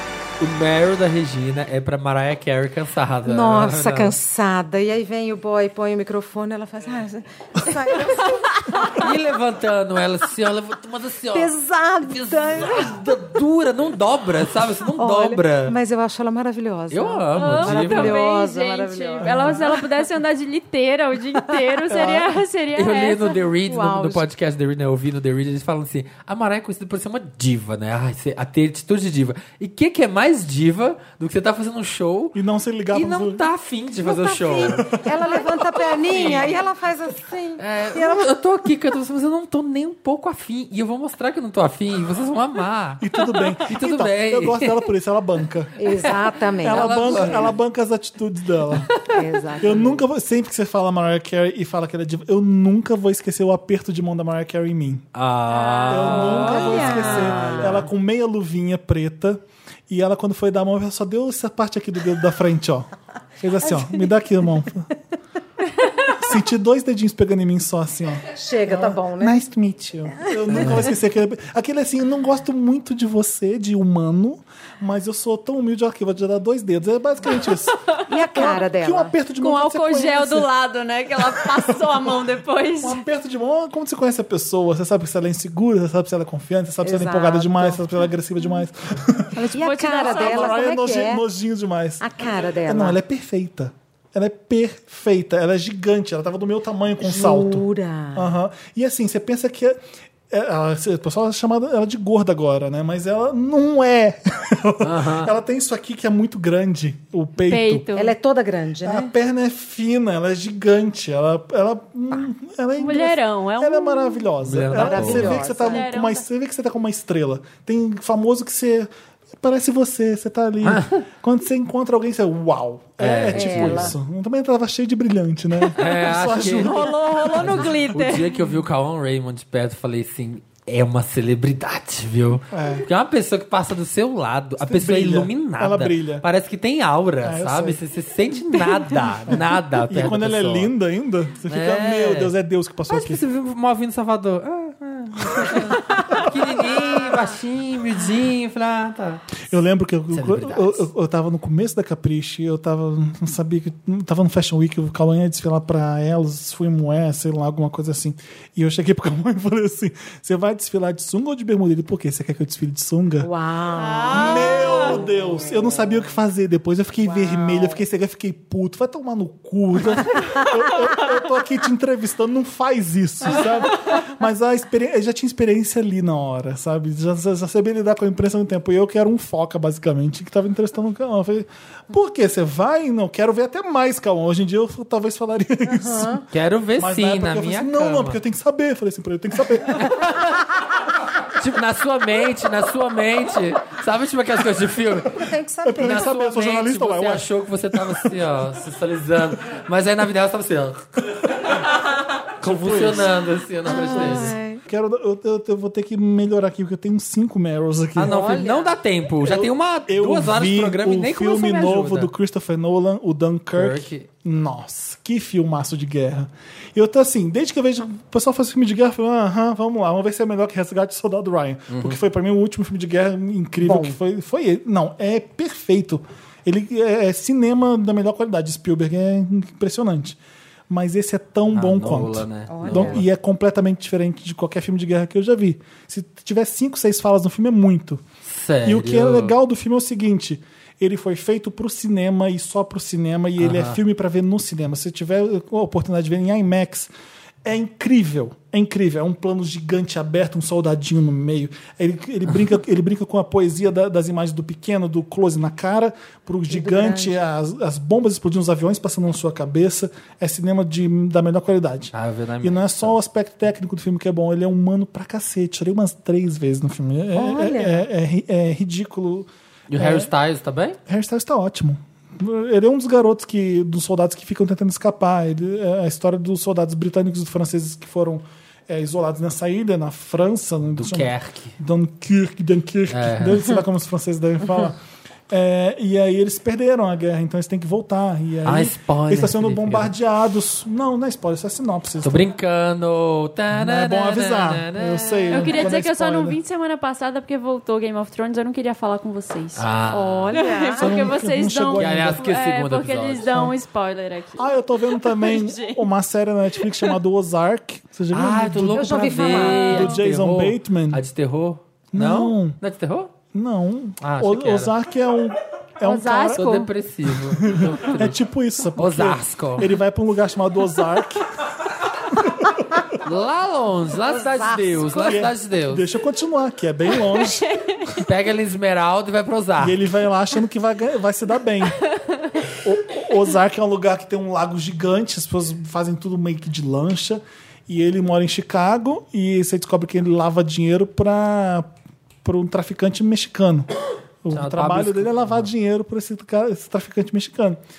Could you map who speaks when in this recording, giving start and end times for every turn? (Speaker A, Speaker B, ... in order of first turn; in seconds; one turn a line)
Speaker A: 0.4-4.2
Speaker B: 3.2-9.0
Speaker A: 8.9-15.8
Speaker B: 11.3-13.0
Speaker B: 15.0-19.7
Speaker A: 16.9-18.2
Speaker C: 17.4-23.4
Speaker D: 19.2-19.6
Speaker D: 21.9-22.3
Speaker A: 22.8-32.4
Speaker B: 23.7-24.2
Speaker D: 32.3-33.5
Speaker A: 32.9-34.9
Speaker B: 34.0-38.3
Speaker A: 35.7-36.6
Speaker A: 37.6-44.9
Speaker D: 43.0-45.8
Speaker B: 45.8-47.3
Speaker A: 46.0-47.5
Speaker D: 46.6-48.9
Speaker B: 49.1-50.0
Speaker D: 49.6-55.1
Speaker A: 55.1-57.9
Speaker C: 55.5-56.4
Speaker D: 55.9-62.9
Speaker B: 56.1-57.8
Speaker D: 63.4-64.9
Speaker B: 63.6-64.1
Speaker D: 66.1-77.8
Speaker B: 68.3-69.4
Speaker A: 70.5-70.9
Speaker B: 78.1-79.2
Speaker D: 78.3-80.5
Speaker C: 79.4-83.0
Speaker D: 81.2-82.2
Speaker D: 82.8-89.3
Speaker B: 86.8-87.8
Speaker B: 89.4-91.2
Speaker C: 89.5-90.6
Speaker D: 90.0-92.1
Speaker B: 92.0-93.0
Speaker D: 92.6-107.9
Speaker B: 97.0-98.3
Speaker A: 104.8-105.3
Speaker C: 107.5-108.2
Speaker B: 108.0-109.1
Speaker D: 108.8-118.9
Speaker C: 112.8-114.3
Speaker A: 114.4-115.4
Speaker B: 114.7-115.9
Speaker C: 115.5-116.2
Speaker D: 119.4-127.8
Speaker A: 120.6-120.9
Speaker A: 123.0-124.0
Speaker B: 123.3-123.9
Speaker A: 125.8-140.7
Speaker C: 126.5-128.4
Speaker D: 132.5-132.9
Speaker D: 134.6-136.2
Speaker D: 137.2-137.8
Speaker D: 139.3-143.2
Speaker A: 141.5-142.3
Speaker A: 142.9-149.2
Speaker D: 145.4-146.2
Speaker D: 149.5-163.3
Speaker A: 150.1-150.9
Speaker B: 163.2-165.0
Speaker C: 163.9-164.3
Speaker D: 164.1-186.2
Speaker B: 167.0-167.8
Speaker B: 185.7-186.2
Speaker A: 186.3-188.2
Speaker D: 186.8-190.0
Speaker A: 189.8-190.5
Speaker A: 191.4-195.3
Speaker B: 195.1-196.1
Speaker D: 195.6-198.1
Speaker A: 195.8-201.8
Speaker A: 202.4-204.3
Speaker D: 202.4-203.1
Speaker B: 203.7-204.6
Speaker D: 203.8-208.3
Speaker A: 208.0-212.1
Speaker B: 208.0-208.8
Speaker D: 209.2-230.2
Speaker A: 213.6-214.1
Speaker A: 221.7-222.0
Speaker B: 223.6-224.0
Speaker D: 230.7-238.0
Speaker A: 231.5-233.0
Speaker B: 232.5-233.0
Speaker A: 238.3-239.3
Speaker D: 238.6-246.9
Speaker A: 243.4-243.8
Speaker D: 247.4-270.1
Speaker B: 256.5-257.2
Speaker A: 261.9-263.0
Speaker B: 267.1-267.9
Speaker A: 269.7-270.8
Speaker D: 270.9-284.8
Speaker A: 280.8-281.6
Speaker A: 282.9-283.5
Speaker D: 285.3-292.3
Speaker A: 288.4-289.9
Speaker A: 292.0-295.7
Speaker D: 293.5-296.4
Speaker C: 295.3-299.7
Speaker A: 299.6-300.4
Speaker B: 299.9-300.9
Speaker C: 300.3-305.8
Speaker D: 300.8-302.3
Speaker A: 301.8-303.5
Speaker D: 304.4-311.0
Speaker A: 308.1-313.1
Speaker B: 308.7-309.7
Speaker C: 309.3-310.0
Speaker D: 311.9-312.6
Speaker D: 313.3-316.7
Speaker A: 314.0-314.7
Speaker C: 315.8-316.7
Speaker A: 316.3-318.2
Speaker D: 317.3-321.3
Speaker A: 318.8-319.7
Speaker D: 322.1-322.8
Speaker A: 323.0-325.8
Speaker B: 324.1-324.9
Speaker D: 324.9-327.5
Speaker C: 327.4-327.8
Speaker A: 328.0-329.8
Speaker D: 329.6-331.8
Speaker D: 332.6-341.7
Speaker D: 342.2-343.7
Speaker D: 344.2-347.6
Speaker A: 344.3-345.5